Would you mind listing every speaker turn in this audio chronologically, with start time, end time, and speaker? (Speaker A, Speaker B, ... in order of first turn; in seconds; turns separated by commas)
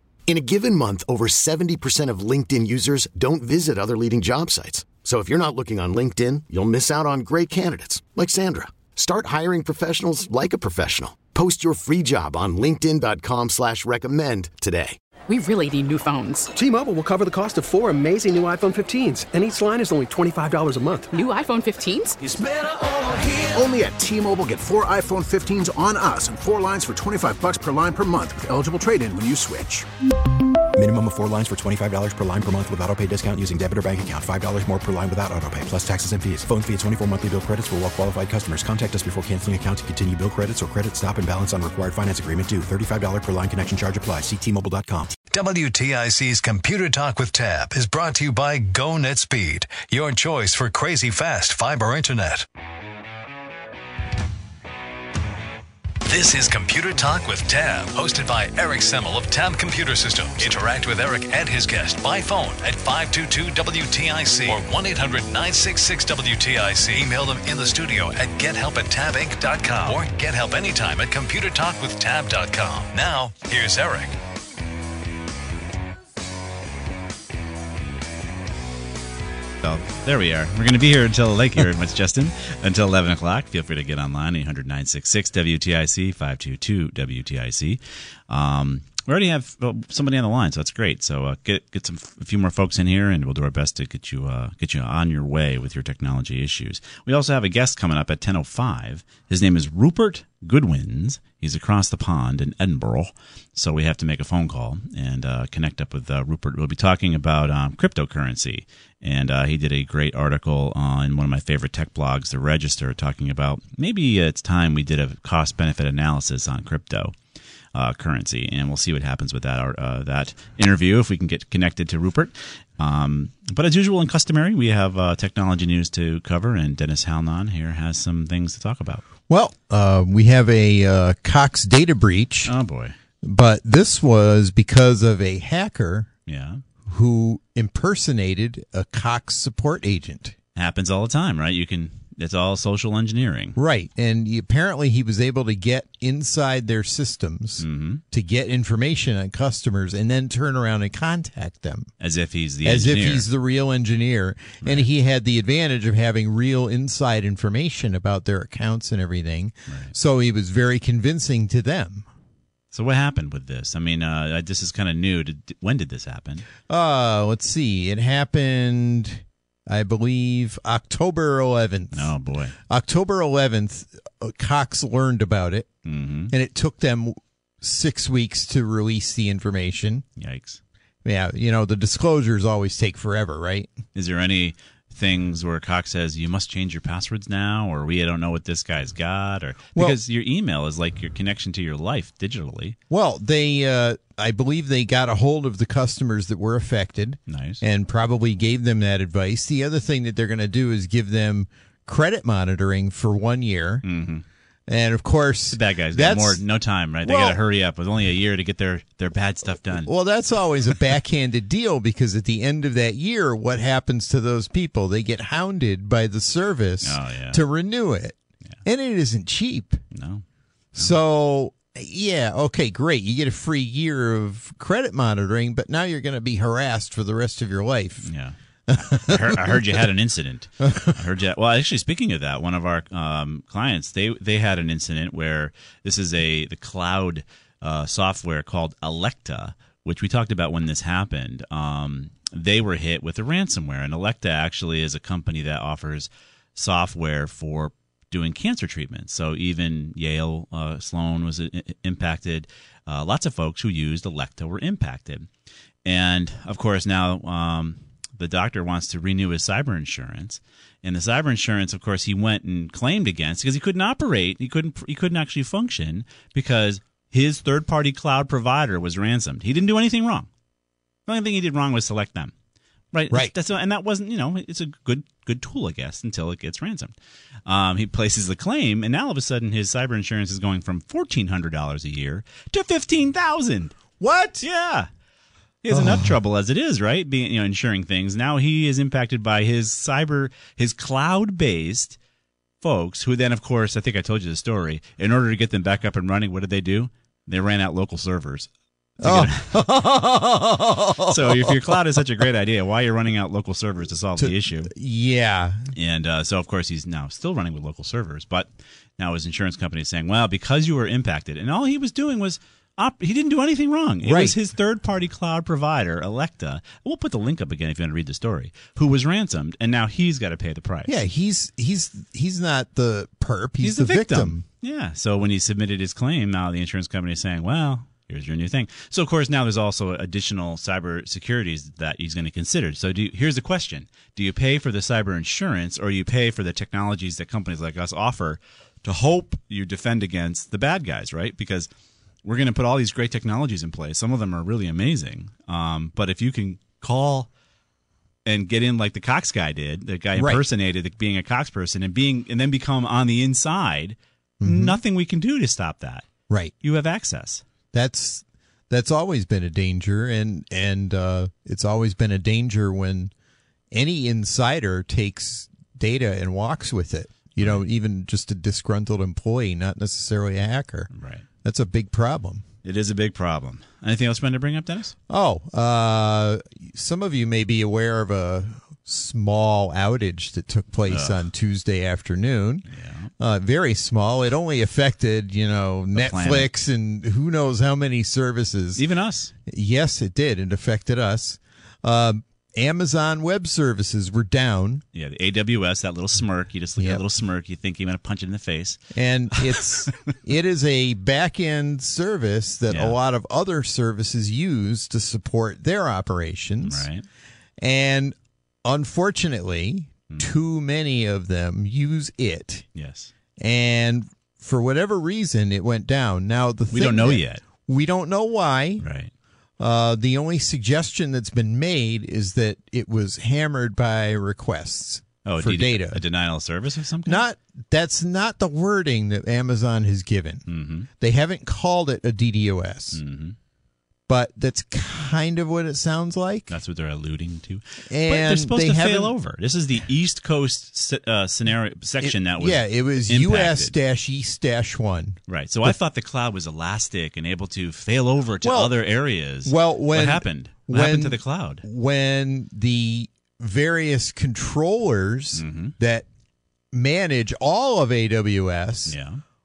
Speaker A: 0.3-15.0, Speaker B: 15.3-16.5, Speaker C: 16.6-21.1, Speaker B: 21.1-22.2, Speaker D: 22.2-29.9, Speaker E: 30.7-45.1, Speaker F: 45.3-52.5, Speaker F: 56.0-74.2, Speaker G: 79.6-117.1, Speaker G: 117.8-129.1, Speaker H: 129.3-132.5, Speaker G: 132.5-132.9, Speaker H: 133.2-136.1, Speaker G: 136.3-136.6, Speaker H: 136.9-140.3, Speaker G: 140.6-143.6, Speaker H: 143.6-151.9, Speaker G: 147.6-148.0, Speaker G: 152.0-153.3, Speaker H: 152.6-162.1, Speaker G: 154.6-154.9, Speaker G: 162.7-166.5, Speaker H: 166.7-172.1, Speaker G: 171.9-172.6, Speaker H: 172.7-175.7, Speaker G: 175.9-176.3, Speaker H: 176.3-180.1, Speaker G: 180.2-180.6, Speaker H: 181.1-183.7, Speaker G: 183.9-192.8, Speaker H: 192.9-203.8, Speaker G: 197.3-197.6, Speaker G: 203.8-204.2, Speaker H: 204.7-206.4, Speaker G: 205.5-209.9, Speaker H: 207.0-207.4, Speaker H: 209.7-219.8, Speaker G: 216.8-217.4, Speaker G: 219.9-220.2, Speaker H: 220.8-228.1, Speaker G: 228.0-228.4, Speaker H: 228.7-229.8, Speaker G: 228.9-255.3, Speaker H: 230.7-230.9, Speaker G: 255.8-270.3, Speaker G: 271.1-272.3, Speaker G: 272.9-276.9, Speaker G: 277.5-283.8, Speaker H: 284.0-284.5, Speaker G: 284.4-284.9, Speaker G: 285.6-292.0, Speaker H: 285.7-286.1, Speaker G: 292.6-298.5, Speaker G: 299.0-299.6, Speaker H: 299.0-301.8, Speaker G: 301.0-304.7, Speaker H: 304.2-305.7, Speaker G: 305.8-320.9, Speaker H: 314.0-314.4, Speaker H: 320.9-324.4, Speaker G: 323.6-341.7, Speaker G: 342.2-347.3, Speaker G: 348.2-356.1, Speaker H: 350.2-350.4, Speaker H: 354.4-354.8, Speaker H: 356.3-356.5, Speaker G: 356.6-357.4, Speaker H: 357.7-363.1, Speaker H: 363.7-370.9, Speaker G: 370.9-371.2, Speaker H: 371.4-372.4, Speaker G: 372.6-374.9, Speaker H: 375.1-382.7, Speaker G: 380.9-381.2, Speaker G: 382.8-383.1, Speaker H: 383.2-388.8, Speaker G: 385.9-386.5, Speaker G: 388.8-389.3, Speaker H: 389.5-394.8, Speaker G: 394.9-398.8, Speaker H: 396.8-397.0, Speaker H: 398.9-406.9, Speaker G: 402.7-403.0, Speaker G: 406.6-407.1, Speaker H: 407.6-412.6, Speaker G: 412.8-413.1, Speaker H: 413.4-418.9, Speaker G: 416.7-417.4, Speaker G: 418.8-419.1, Speaker H: 419.6-426.0, Speaker G: 425.2-427.2, Speaker H: 427.1-430.5, Speaker G: 430.5-430.9, Speaker H: 431.0-433.0, Speaker G: 432.9-433.4, Speaker H: 434.1-436.6, Speaker G: 436.5-443.7, Speaker H: 437.9-439.1, Speaker H: 442.0-445.8, Speaker G: 445.3-451.6, Speaker H: 448.4-448.7, Speaker H: 449.4-456.1, Speaker G: 455.4-455.8, Speaker H: 456.7-459.0, Speaker G: 458.9-459.2